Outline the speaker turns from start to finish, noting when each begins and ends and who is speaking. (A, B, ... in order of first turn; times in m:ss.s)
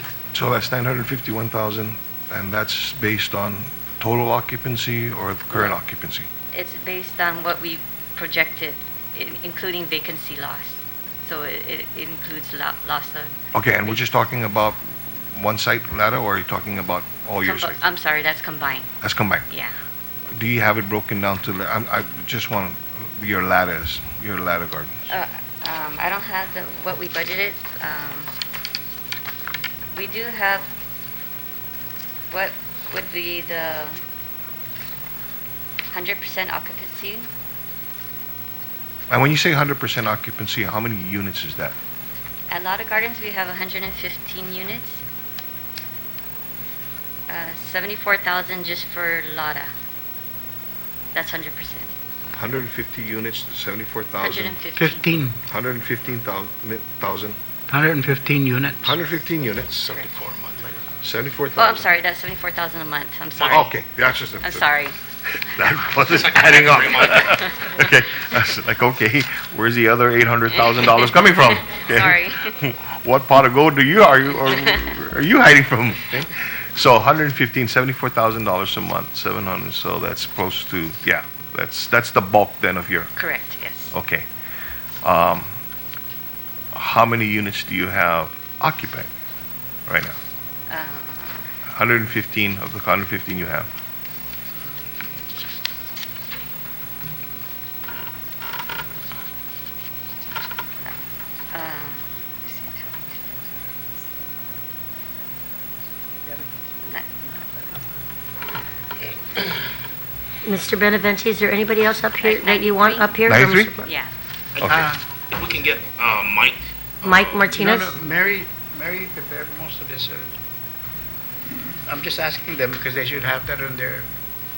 0:00.3-0:06.3 A
0:06.5-0:13.4 B
0:13.5-0:17.8 A
0:17.4-0:18.9 B
0:19.0-0:19.5 A
0:19.5-0:19.7 B
0:20.3-0:25.1 A
0:25.1-0:28.3 B
0:29.9-0:30.7 B
0:32.3-0:34.0 B
0:35.9-0:37.3 B
0:39.1-0:41.8 A
0:42.5-0:45.0 B
0:47.3-0:49.7 B
0:51.1-0:51.9 B
0:52.3-0:54.6 A
0:54.2-0:55.1 B
0:54.8-0:55.4 C
0:55.5-0:57.4 A
0:57.7-0:59.0 C
0:58.8-1:00.1 A
1:01.0-1:01.9 A
1:01.6-1:03.8 B
1:03.5-1:04.7 A
1:04.4-1:05.0 B
1:05.3-1:23.1 A
1:07.0-1:07.7 B
1:11.7-1:12.5 B
1:23.2-1:23.9 B
1:23.9-1:24.3 A
1:25.0-1:25.6 A
1:26.7-1:29.1 A
1:29.9-1:30.2 A
1:30.7-1:31.5 B
1:31.7-1:33.7 A
1:41.5-1:43.3 B
1:50.4-1:53.9 D
1:52.2-1:53.2 B
1:53.3-1:53.8 A
1:53.8-1:54.1 B
1:54.6-1:54.8 A
1:54.7-1:55.0 C
1:55.3-1:57.3 E
1:57.0-1:58.0 D
1:57.5-2:00.4 C
2:01.9-2:04.1 C